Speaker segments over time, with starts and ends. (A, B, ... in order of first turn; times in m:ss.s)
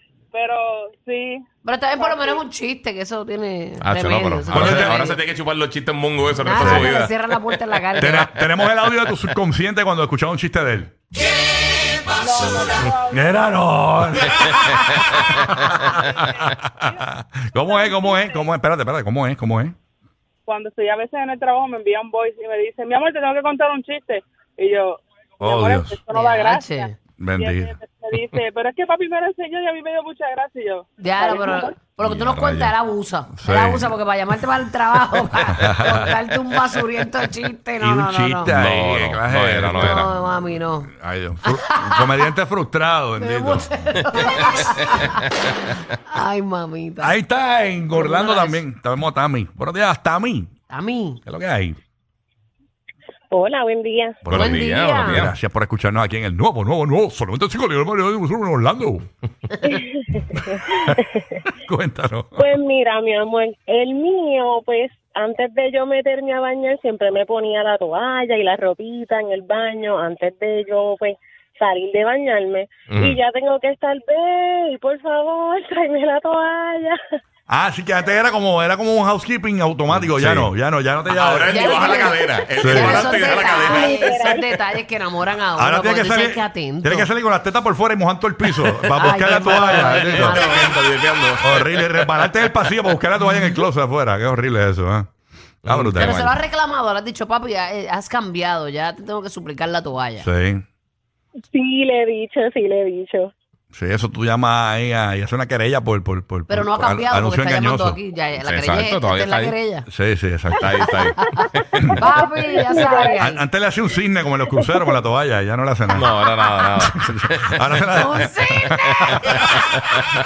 0:00.3-0:01.4 A
0:01.6-0:05.2 B
0:02.0-0:02.4 A
0:03.8-0:07.6 C
0:04.5-0:05.1 D
0:06.4-0:08.4 B
0:06.6-0:06.9 D
0:08.0-0:10.9 D
0:12.1-0:13.6 A
0:13.1-0:19.8 D
0:15.2-0:15.8 C
0:16.0-0:17.0 A
0:17.5-0:18.5 A
0:20.5-0:31.9 A
0:25.4-0:26.0 D
0:26.1-0:26.9 B
0:27.2-0:27.7 D
0:31.0-0:38.5 B
0:32.0-0:32.7 C
0:33.4-0:33.9 D
0:35.6-0:36.1 D
0:37.8-0:40.1 D
0:38.5-0:40.1 C
0:39.7-0:40.9 B
0:40.9-0:44.0 D
0:41.5-0:42.1 B
0:43.2-0:45.2 B
0:44.1-0:45.2 C
0:46.1-0:47.1 B
0:47.0-0:50.5 D
0:47.9-0:48.6 B
0:50.7-0:51.2 B
0:51.2-0:51.8 D
0:53.4-0:54.1 E
0:54.2-0:59.1 D
0:54.3-0:55.3 B
0:54.3-0:55.3 C
1:00.4-1:01.0 D
1:01.5-1:02.4 D
1:02.4-1:17.0 E
1:12.9-1:13.2 C
1:17.5-1:22.0 D
1:19.9-1:20.5 C
1:21.1-1:24.6 C
1:21.5-1:27.1 B
1:22.5-1:23.1 D
1:23.3-1:24.3 E
1:25.6-1:30.7 D
1:28.6-1:32.4 C
1:29.0-1:30.8 B
1:31.4-1:35.1 D
1:35.6-1:36.3 D
1:35.6-1:36.4 C
1:36.0-1:40.3 B
1:40.2-1:40.6 D
1:41.5-1:43.3 E
1:43.7-1:48.0 D
1:46.5-1:49.9 B
1:48.4-1:49.6 C
1:49.9-1:50.7 D
1:50.6-1:51.6 C
1:50.8-1:51.4 B
1:52.0-1:53.4 B
1:52.5-1:53.2 E
1:53.2-1:56.2 D
1:55.9-2:00.0 C
1:56.8-1:59.6 D
1:57.9-1:58.8 B